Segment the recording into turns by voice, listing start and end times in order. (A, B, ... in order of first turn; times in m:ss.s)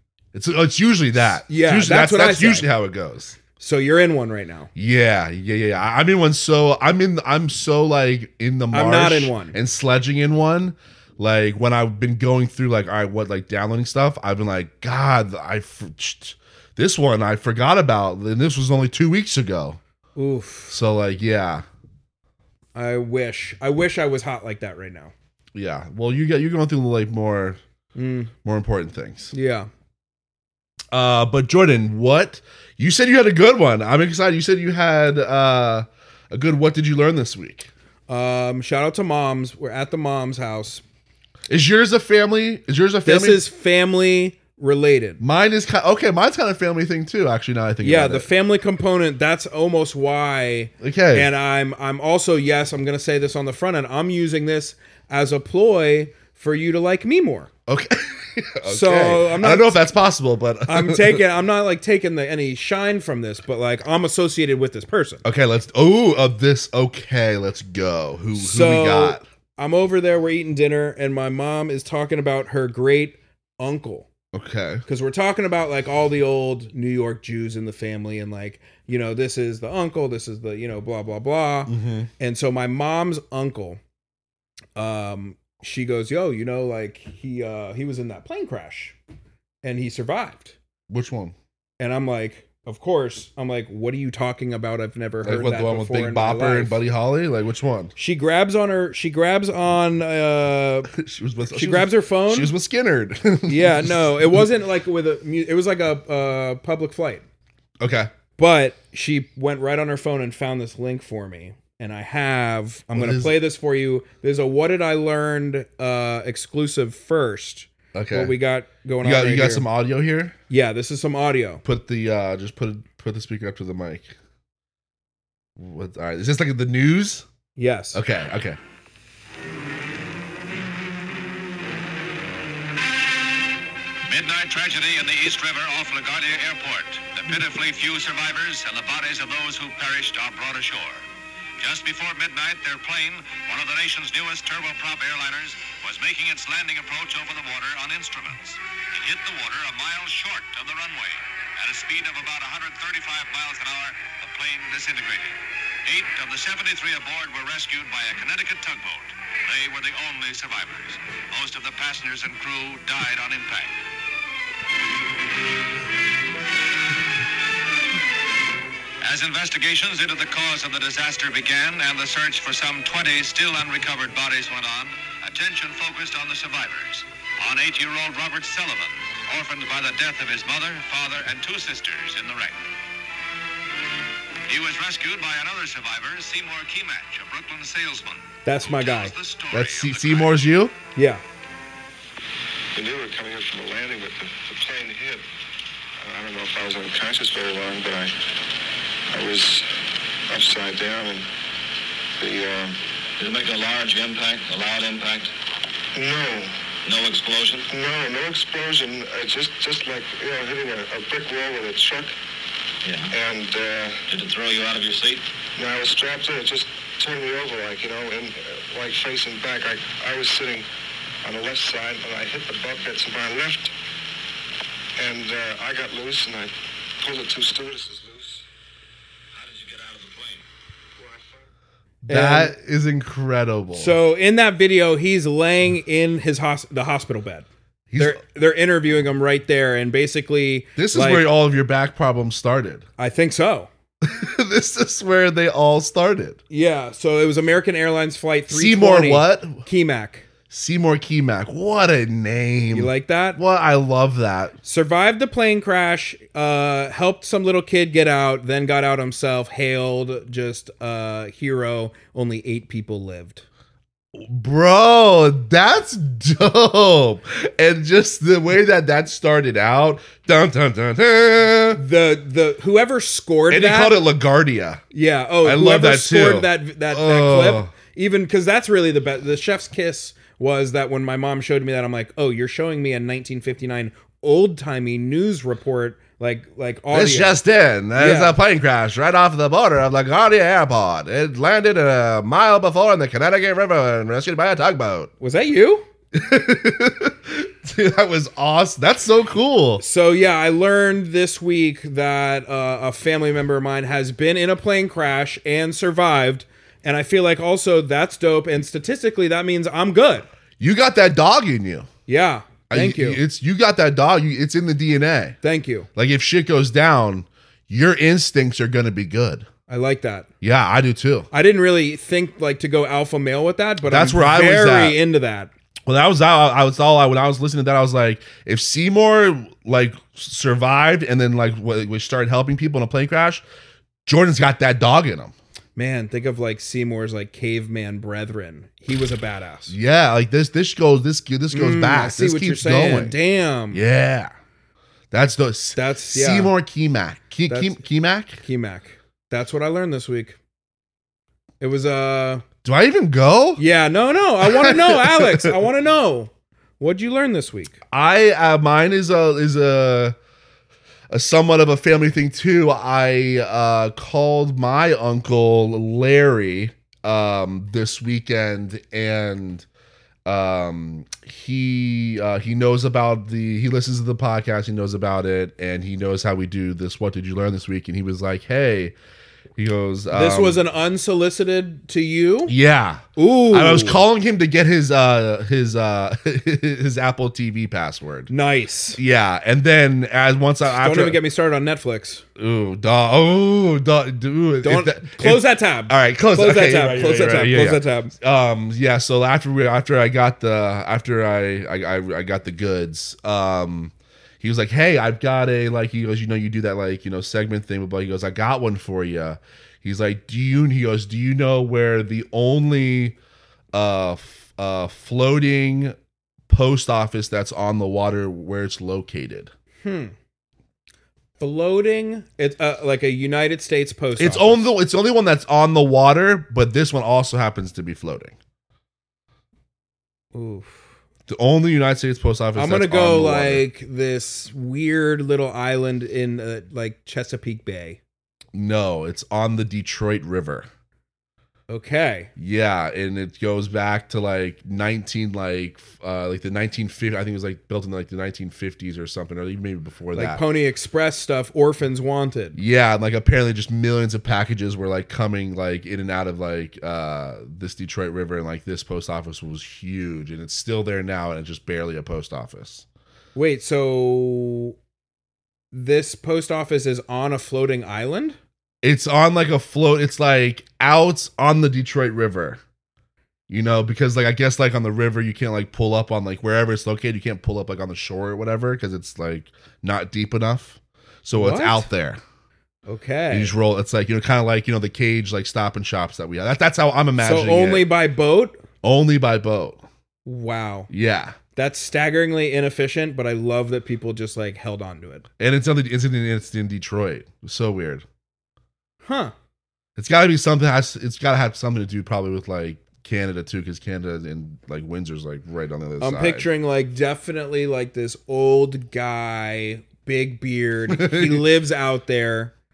0:00.3-0:03.4 A
0:01.5-0:02.7 B
0:03.6-0:04.7 B
0:04.8-0:19.8 A
0:08.7-0:09.6 B
0:20.2-0:20.8 B
0:20.7-0:21.6 A
0:22.8-0:25.1 B
0:25.6-0:27.6 A
0:28.0-0:28.3 B
0:28.4-0:29.3 A
0:29.3-0:29.7 B
0:30.9-0:37.7 A
0:38.1-0:40.8 B
0:41.5-0:43.4 A
0:43.0-0:45.2 B
0:45.2-0:48.3 A
0:47.8-0:57.5 B
0:50.8-0:51.3 A
0:57.7-1:01.2 A
0:58.6-0:59.8 B
1:00.7-1:05.2 B
1:05.2-1:09.2 A
1:08.4-1:14.1 B
1:14.3-1:14.8 A
1:14.9-1:23.8 B
1:21.7-1:22.1 A
1:24.8-1:29.0 B
1:29.6-1:30.6 B
1:30.9-1:31.4 A
1:31.8-1:36.8 B
1:35.2-1:37.9 A
1:38.0-1:40.9 B
1:40.9-1:44.4 A
1:41.5-1:42.5 B
1:43.5-1:47.2 B
1:47.8-1:48.1 A
1:48.4-1:59.7 B
1:52.9-1:53.4 A
1:57.9-1:58.4 A
1:59.0-2:00.4 A
2:00.5-2:01.6 B
2:01.6-2:04.1 A
2:05.6-2:07.3 A
2:07.6-2:08.0 B
2:07.9-2:08.6 A
2:14.1-2:21.0 C
2:21.6-2:43.8 C
2:49.0-3:02.6 C
3:04.5-3:10.4 C
3:08.4-3:09.1 B
3:09.5-3:10.8 A
3:11.0-3:11.2 B
3:12.7-3:15.2 D
3:16.0-3:18.2 D
3:19.1-3:19.7 D
3:20.3-3:21.3 D
3:22.2-3:22.8 D
3:23.2-3:25.3 E
3:25.9-3:26.5 D
3:26.9-3:27.7 E
3:27.7-3:32.1 D
3:32.8-3:33.1 E
3:33.1-3:34.1 D
3:34.1-3:35.2 E
3:35.6-3:40.7 D
3:41.2-3:43.7 D
3:45.0-3:48.4 D
3:49.3-3:50.4 E
3:51.0-3:51.5 D
3:52.1-3:54.0 A
3:52.1-3:52.5 B
3:53.7-4:01.3 B
3:57.9-3:58.2 A
4:00.8-4:02.8 A
4:03.0-4:03.7 B
4:04.0-4:06.4 A
4:06.5-4:10.3 B
4:08.5-4:09.6 A
4:10.5-4:14.6 A
4:12.7-4:13.4 B
4:14.6-4:23.4 B
4:24.2-4:31.8 A
4:31.7-4:34.0 B
4:33.5-4:34.8 A
4:34.9-4:47.4 B
4:35.4-4:37.7 A
4:46.9-4:55.1 A
4:48.0-4:48.4 B
4:55.2-4:55.9 B
4:56.1-4:59.8 A
4:59.8-5:10.3 B
5:10.6-5:11.9 A
5:12.1-5:13.2 B
5:12.7-5:15.4 A
5:15.4-5:15.9 B
5:16.0-5:19.5 A
5:19.7-5:20.3 B
5:20.4-5:21.3 A
5:21.3-5:25.5 B
5:23.9-5:25.0 A
5:25.9-5:33.4 A
5:34.1-5:35.3 A
5:35.8-5:39.8 B
5:39.7-5:43.2 A
5:41.5-5:43.8 B
5:43.7-5:44.3 A
5:45.1-5:48.4 A
5:45.8-5:46.5 B
5:47.5-5:47.8 B
5:48.4-5:50.4 B
5:51.6-5:52.4 B
5:52.6-5:53.6 A
5:53.6-5:57.8 B
5:54.4-5:55.5 A
5:57.9-6:00.2 A
6:01.1-6:09.7 A
6:10.2-6:18.9 A
6:19.6-6:20.6 A
6:20.1-6:22.5 B
6:22.5-6:28.3 A
6:23.2-6:24.0 B
6:28.3-6:29.0 B
6:29.0-6:31.2 A
6:30.7-6:32.2 B
6:32.4-6:53.2 A
6:34.6-6:38.1 B
6:53.7-6:56.0 A
6:56.5-6:59.5 A
6:59.8-7:00.1 B
7:01.4-7:04.7 B
7:04.2-7:08.4 A
7:10.3-7:10.8 B
7:11.3-7:13.6 A
7:12.6-7:18.0 B
7:18.5-7:20.7 A
7:21.7-7:22.3 B
7:22.4-7:30.4 A
7:30.1-7:32.6 B
7:32.6-7:42.8 A
7:43.4-7:44.8 B
7:45.7-7:48.4 B
7:48.8-7:52.6 A
7:53.5-8:02.2 A
8:01.4-8:01.9 B
8:02.9-8:03.5 B
8:03.3-8:07.9 A
8:07.2-8:08.6 B
8:08.8-8:09.8 A
8:10.2-8:10.9 B
8:10.9-8:11.4 A
8:11.6-8:15.2 B
8:15.4-8:18.0 A
8:19.0-8:19.3 B
8:20.0-8:26.5 A
8:26.0-8:32.5 B
8:30.9-8:31.4 A